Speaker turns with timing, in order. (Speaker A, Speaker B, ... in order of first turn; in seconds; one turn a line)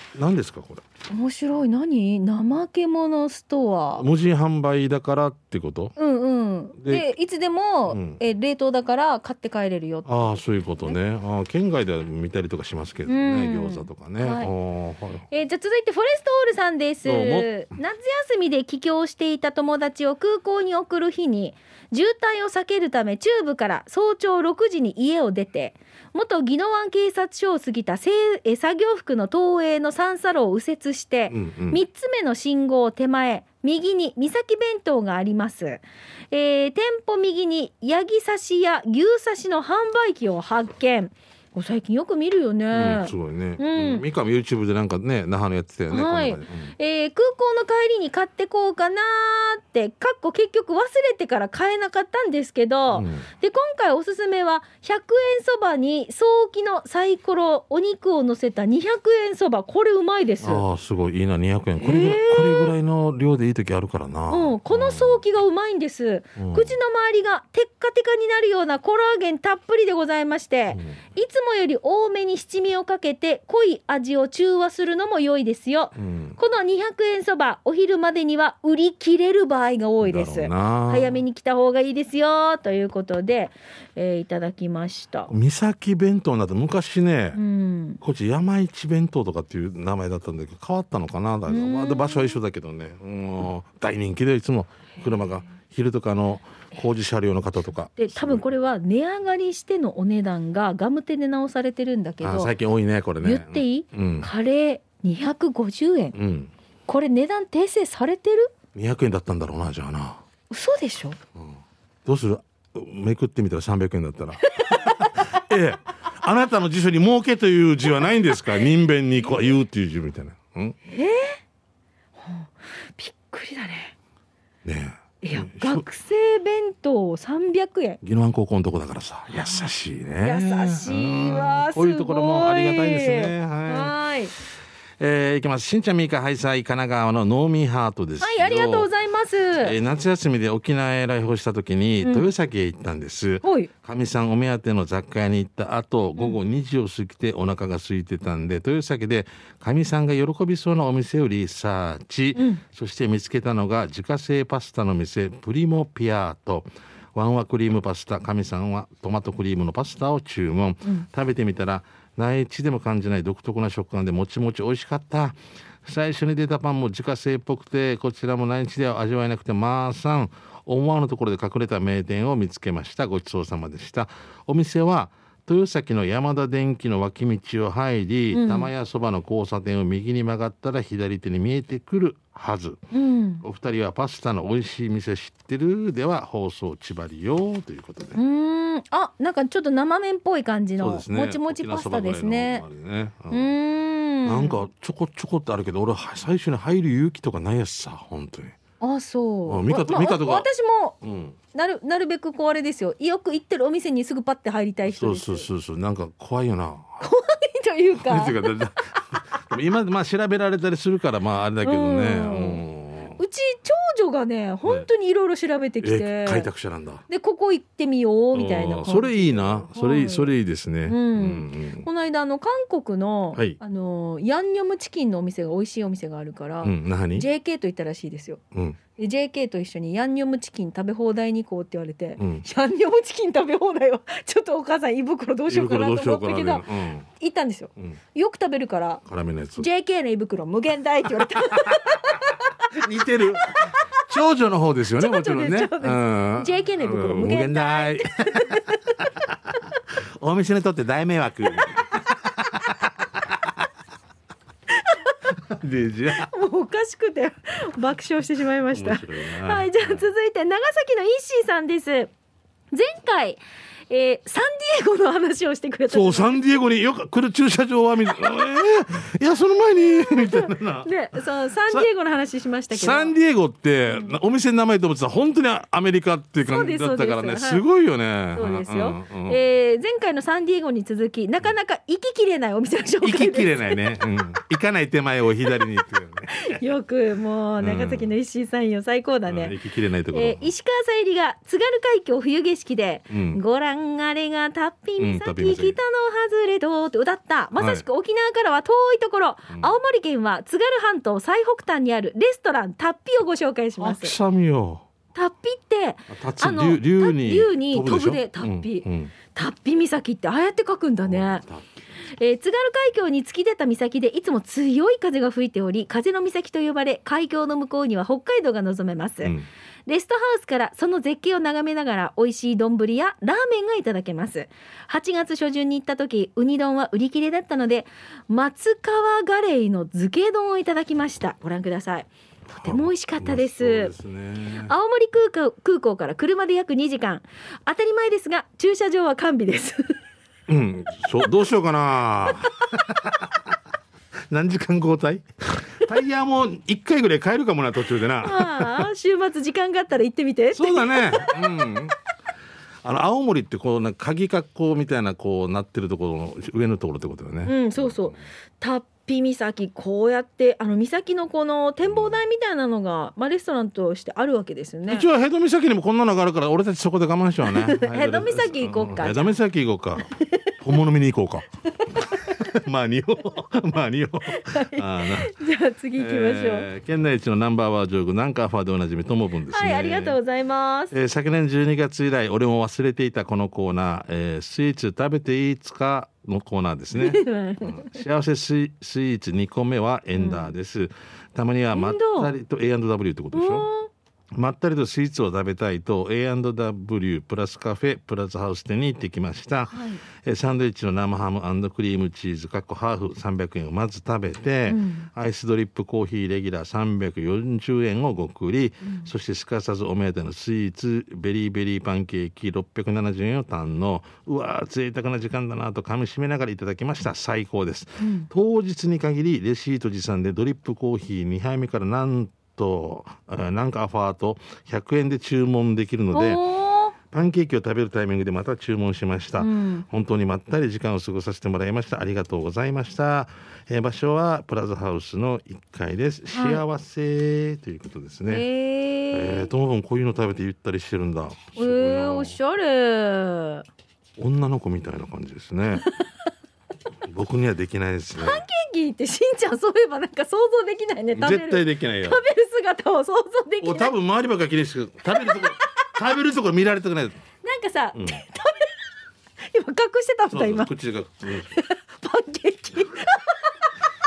Speaker A: 0.1-0.8
Speaker B: 1.1-4.0
Speaker A: 4.0-5.9
Speaker B: 6.0-10.3
Speaker A: 6.8-7.0
Speaker A: 7.9-8.2
Speaker A: 10.1-15.2
Speaker B: 13.1-14.5
Speaker B: 15.3-44.0
Speaker A: 17.0-17.5
Speaker A: 31.3-31.8
Speaker A: 42.7-46.7
Speaker B: 45.9-60.6
Speaker A: 52.9-53.2
Speaker A: 60.4-65.2
Speaker B: 61.8-62.7
Speaker B: 64.3-85.3
Speaker A: 66.4-66.7
Speaker A: 76.0-76.4
Speaker A: 80.0-81.2
Speaker A: 85.3-87.4
Speaker B: 87.3-88.0
Speaker A: 88.0-98.4
Speaker B: 91.5-92.4
Speaker B: 98.0-102.5
Speaker A: 102.2-104.3
Speaker B: 103.2-106.1
Speaker A: 106.1-106.5
Speaker B: 106.9-108.5
Speaker A: 108.7-110.2
Speaker B: 110.5-111.2
Speaker A: 111.3-120.8
Speaker B: 114.4-115.4
Speaker B: 120.8-121.4
Speaker B: 122.2-123.9
Speaker A: 124.6-125.8
Speaker B: 125.2-128.0
Speaker A: 128.0-133.9
Speaker B: 130.2-134.3
Speaker A: 135.0-138.9
Speaker B: 138.2-139.8
Speaker A: 139.6-182.8
Speaker B: 142.0-142.3
Speaker B: 143.4-143.7
Speaker B: 152.3-152.6
Speaker B: 178.3-178.7
Speaker B: 182.9-183.4
Speaker A: 183.4-188.2
Speaker B: 188.1-192.6
Speaker A: 190.8-193.5
Speaker B: 193.3-194.6
Speaker A: 194.2-198.6
Speaker B: 198.8-201.0
Speaker A: 199.5-200.5
Speaker A: 201.0-201.4
Speaker B: 201.5-205.5
Speaker A: 204.9-207.0
Speaker B: 207.0-208.6
Speaker A: 208.0-213.2
Speaker B: 211.6-212.6
Speaker B: 213.2-216.5
Speaker A: 215.8-217.0
Speaker B: 217.1-220.3
Speaker A: 218.3-221.9
Speaker B: 220.9-228.4
Speaker A: 226.6-227.3
Speaker A: 228.5-228.8
Speaker B: 229.0-239.0
Speaker A: 232.2-232.4
Speaker A: 235.5-237.1
Speaker A: 239.1-239.7
Speaker B: 239.6-242.8
Speaker A: 241.2-241.9
Speaker A: 242.7-248.6
Speaker B: 243.3-244.0
Speaker B: 245.0-249.1
Speaker A: 250.2-253.5
Speaker B: 254.8-255.3
Speaker A: 255.4-256.3
Speaker B: 256.2-262.1
Speaker A: 258.7-260.0
Speaker B: 262.7-266.4
Speaker A: 265.9-270.9
Speaker B: 269.8-273.1
Speaker A: 272.7-279.4
Speaker B: 276.5-277.6
Speaker B: 278.3-284.0
Speaker A: 283.0-286.6
Speaker B: 286.3-289.6
Speaker A: 287.6-288.1
Speaker A: 289.3-290.5
Speaker B: 290.1-304.1
Speaker A: 293.1-293.4
Speaker A: 295.0-295.8
Speaker A: 297.6-297.8
Speaker A: 303.8-304.8
Speaker B: 305.1-311.4
Speaker A: 306.1-309.1
Speaker A: 311.0-311.7
Speaker B: 312.1-319.4
Speaker B: 319.9-333.9
Speaker A: 332.6-334.7
Speaker B: 334.6-340.0
Speaker A: 340.5-343.4
Speaker A: 344.3-348.9
Speaker B: 348.2-351.7
Speaker A: 350.5-351.9
Speaker A: 352.8-358.2
Speaker B: 357.4-365.1
Speaker A: 361.9-362.1
Speaker A: 364.9-371.4
Speaker B: 367.4-369.3
Speaker B: 370.1-370.5
Speaker B: 371.8-372.5
Speaker A: 372.0-375.3
Speaker B: 374.3-376.7
Speaker A: 375.9-380.2
Speaker B: 379.5-380.9
Speaker A: 380.9-393.7
Speaker B: 386.9-388.0
Speaker B: 390.1-390.5
Speaker B: 391.7-392.3
Speaker B: 393.3-393.9
Speaker A: 394.3-426.4
Speaker B: 399.7-400.0
Speaker B: 404.7-405.1
Speaker B: 408.8-409.1
Speaker B: 418.0-418.3
Speaker B: 426.1-426.9
Speaker A: 427.1-438.4
Speaker B: 429.4-429.9
Speaker B: 436.3-436.6
Speaker B: 438.3-439.5
Speaker A: 439.1-442.4
Speaker B: 441.6-443.6
Speaker A: 444.2-445.9
Speaker A: 447.0-448.4
Speaker B: 448.2-453.9
Speaker A: 451.1-452.2
Speaker A: 453.6-457.2
Speaker B: 457.4-458.7
Speaker A: 457.9-458.2
Speaker B: 459.4-460.7
Speaker A: 460.3-461.6
Speaker B: 461.3-463.5